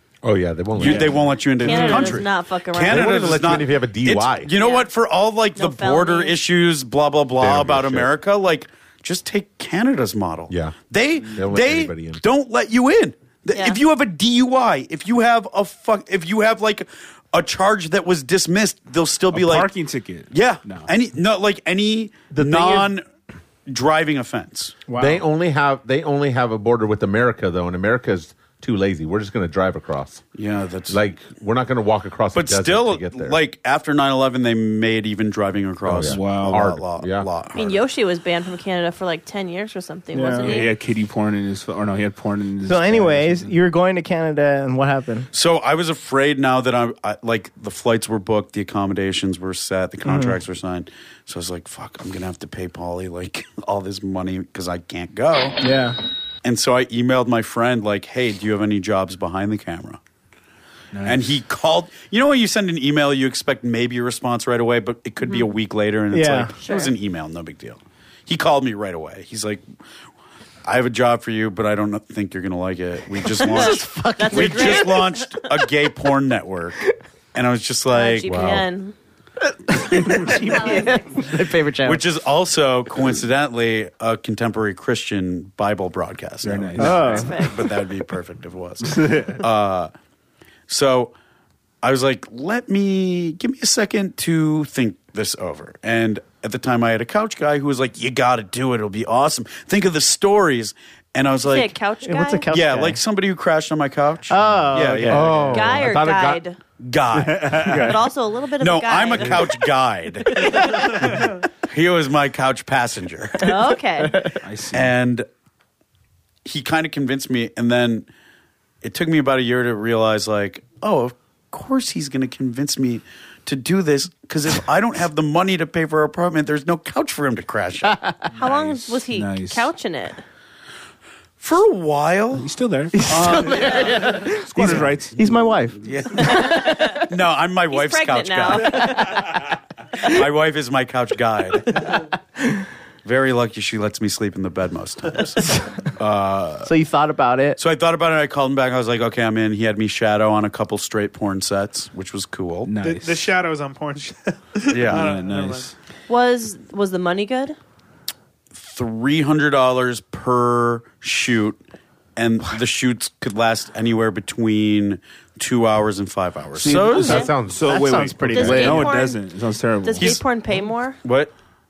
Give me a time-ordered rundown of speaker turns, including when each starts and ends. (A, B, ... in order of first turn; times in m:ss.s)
0:00.2-0:01.2 A
0:00.8-0:19.7 B
0:00.8-0:02.1 C
0:01.5-0:03.4 D
0:02.8-0:04.5 A
0:04.5-0:04.9 D
0:05.6-0:06.4 D
0:07.4-0:08.2 A
0:10.5-0:10.8 A
0:11.3-0:12.2 A
0:13.5-0:13.8 D
0:19.3-0:20.9 C
0:20.3-0:23.0 B
0:22.4-0:22.8 E
0:23.7-0:24.8 B
0:24.9-0:25.2 E
0:25.0-0:30.2 A
0:30.3-0:31.0 B
0:30.9-0:33.4 A
0:32.3-0:37.8 B
0:35.8-0:37.3 A
0:36.0-0:36.7 C
0:37.5-0:40.7 D
0:40.1-0:40.6 E
0:40.4-0:43.5 C
0:42.7-0:45.3 E
0:45.3-0:55.6 B
0:50.0-0:50.4 E
0:55.6-0:56.0 E
0:56.4-1:00.0 B
1:00.9-1:01.4 C
1:01.0-1:09.6 B
1:06.1-1:06.5 E
1:06.6-1:06.9 D
1:10.6-1:16.8 B
1:13.3-1:15.2 E
1:13.4-1:15.2 D
1:17.3-1:18.5 B
1:17.9-1:18.9 D
1:18.2-1:18.6 A
1:19.7-1:22.0 E
1:20.6-1:21.0 D
1:21.8-1:29.9 B
1:26.4-1:27.3 C
1:26.8-1:27.3 E
1:27.0-1:27.8 D
1:28.8-1:29.4 C
1:30.7-1:31.1 B
1:31.8-1:41.8 B
1:41.4-1:42.5 D
1:42.0-1:43.0 E
1:42.5-1:45.8 B
1:44.3-1:45.3 E
1:44.4-1:45.4 C
1:45.1-1:46.4 A
1:45.4-1:46.6 D
1:46.8-1:48.0 B
1:47.2-1:48.0 C
1:47.7-1:49.6 D
1:48.6-1:53.5 B
1:50.3-1:51.0 D
1:53.4-1:54.4 D
1:53.5-1:54.3 E
1:54.4-1:54.9 C
1:54.7-1:55.3 B
1:56.4-1:58.1 B
1:58.8-2:08.2 B
2:08.4-2:10.2 D
2:08.4-2:09.7 C
2:11.4-2:12.5 B
2:12.4-2:13.0 C
2:12.9-2:17.0 E
2:13.0-2:14.2 B
2:14.2-2:15.4 C
2:15.8-2:19.0 B
2:16.2-2:17.0 D
2:17.7-2:19.2 D
2:18.7-2:19.2 E
2:20.0-2:22.0 B
2:23.0-2:26.7 B
2:26.6-2:27.6 E
2:27.6-2:32.7 B
2:32.6-2:33.3 C
2:32.8-2:35.7 F
2:34.7-2:35.1 B
2:34.8-2:35.7 C
2:36.1-2:37.6 D
2:38.6-2:41.6 B
2:42.2-2:47.3 B
2:46.5-2:50.2 C
2:47.0-2:48.0 A
2:47.6-2:48.9 E
2:48.2-2:49.2 D
2:49.8-2:51.0 D
2:51.0-2:51.3 B